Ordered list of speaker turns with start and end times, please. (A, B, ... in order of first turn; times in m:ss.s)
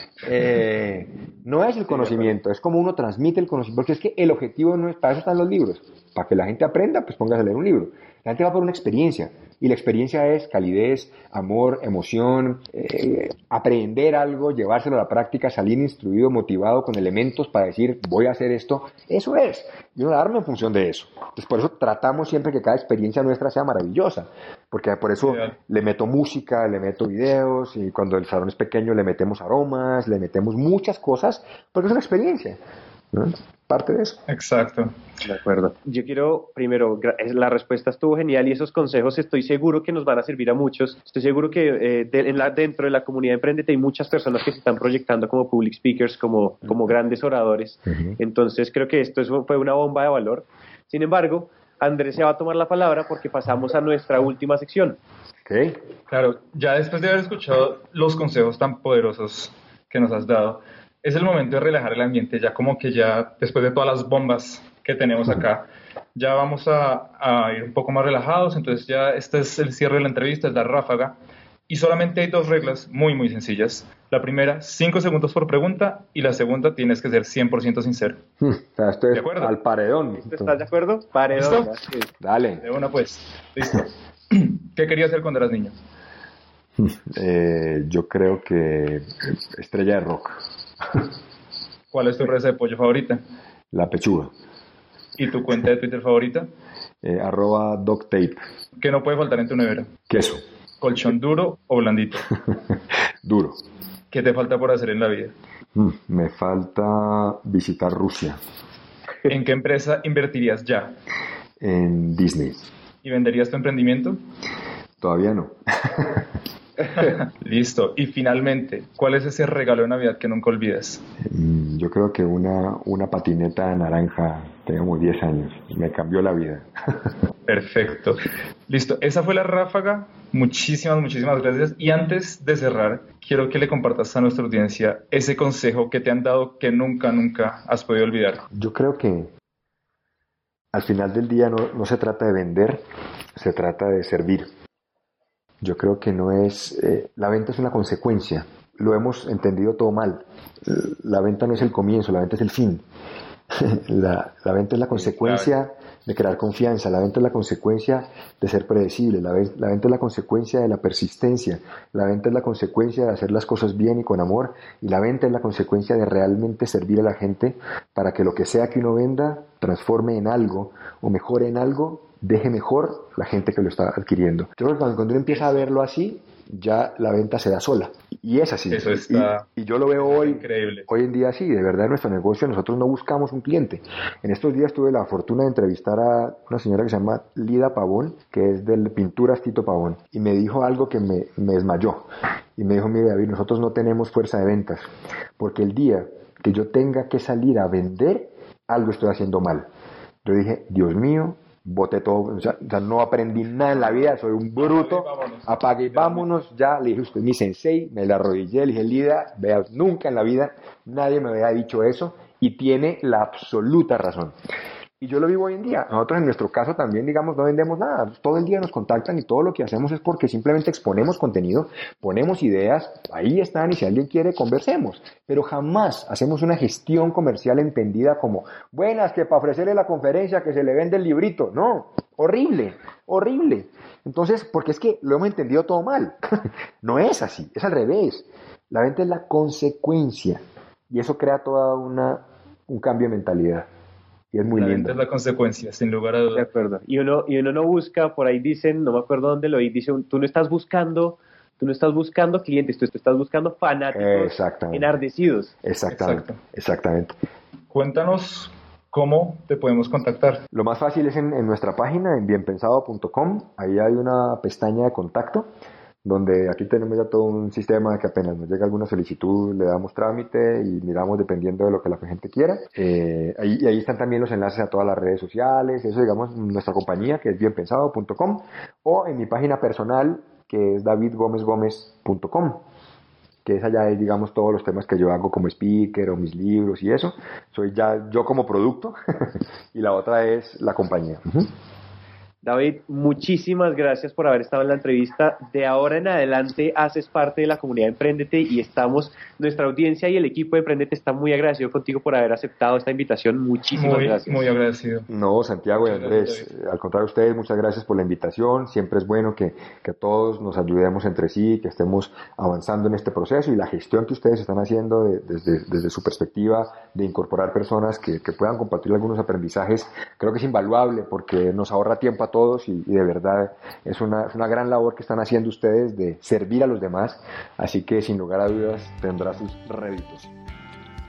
0:00.2-0:32.6 A
0:01.9-0:02.3 B
0:25.2-0:25.5 C
0:33.1-0:34.2 A
0:34.3-0:34.9 C
0:35.2-0:55.0 B
0:47.9-0:48.2 A
0:55.4-0:55.8 A
0:56.1-1:11.1 C
1:11.7-1:18.2 C
1:18.4-1:20.6 A
1:19.1-1:19.5 C
1:20.2-1:22.1 B
1:21.3-1:21.7 C
1:22.2-1:22.6 A
1:22.6-1:25.7 C
1:26.8-1:31.0 A
1:31.9-1:33.2 C
1:33.7-1:34.3 A
1:35.2-1:36.5 C
1:37.0-1:38.4 A
1:38.8-1:39.9 C
1:40.1-1:40.4 A
1:40.8-1:42.3 C
1:43.2-1:43.6 A
1:44.1-1:45.3 C
1:45.7-1:48.4 A
1:49.3-1:50.9 C
1:51.6-1:52.6 A
1:53.0-1:54.2 C
1:55.0-1:56.3 A
1:56.9-2:01.0 C
2:01.2-2:07.1 A
2:07.5-2:18.4 C
2:18.5-2:19.3 A
2:20.7-2:22.8 A
2:23.3-2:24.5 A
2:25.6-2:32.8 A
2:33.5-3:19.7 A
2:35.0-2:35.5 C
2:55.3-2:55.7 C
2:58.7-2:59.4 C
3:00.0-3:00.9 C
3:20.2-3:34.3 A
3:23.9-3:26.3 C
3:35.0-4:03.7 A
4:04.3-4:05.0 A
4:04.5-4:06.5 C
4:06.3-4:15.5 B
4:13.9-4:14.9 A
4:15.6-4:17.1 A
4:15.9-4:16.4 C
4:17.7-4:20.4 C
4:20.5-4:25.5 A
4:26.0-4:42.6 A
4:43.4-4:51.5 A
4:52.4-5:04.5 B
5:03.7-5:05.1 C
5:05.1-5:30.3 A
5:05.8-5:06.4 C